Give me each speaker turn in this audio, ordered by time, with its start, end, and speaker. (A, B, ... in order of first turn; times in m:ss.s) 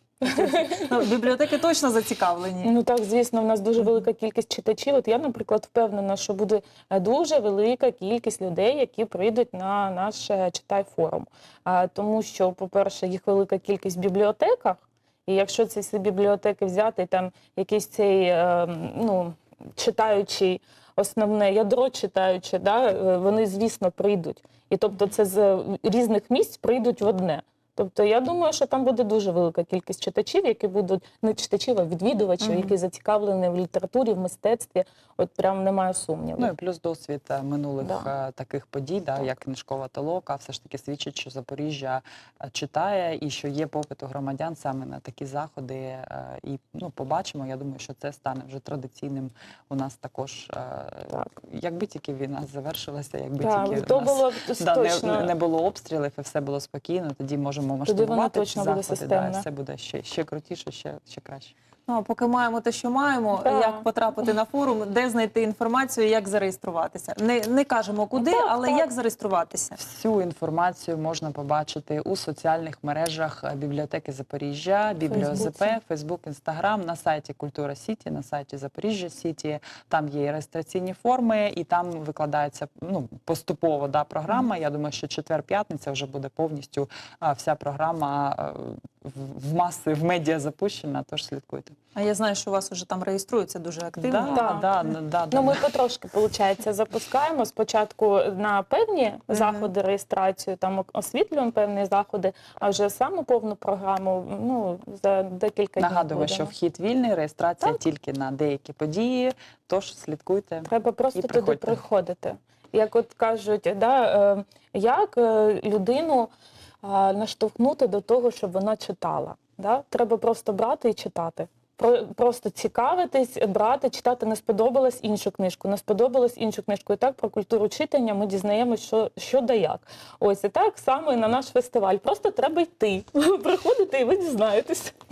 0:00.2-0:01.1 A
0:00.2-0:02.7 B
0:02.6-0:36.5 A
0:32.4-0:32.8 B
0:36.4-1:01.5 C
0:37.8-0:38.1 A
0:53.4-0:55.3 A
0:57.9-0:59.4 A
1:01.9-1:09.8 B
1:03.4-1:03.8 A
1:08.2-1:08.9 A
1:09.8-1:31.8 C
1:15.1-1:15.8 A
1:32.0-1:34.6 B
1:34.0-1:35.6 C
1:34.3-1:34.7 A
1:35.3-1:46.5 A
1:39.3-1:39.7 B
1:45.8-1:51.8 C
1:50.6-1:56.3 A
1:56.8-2:15.0 A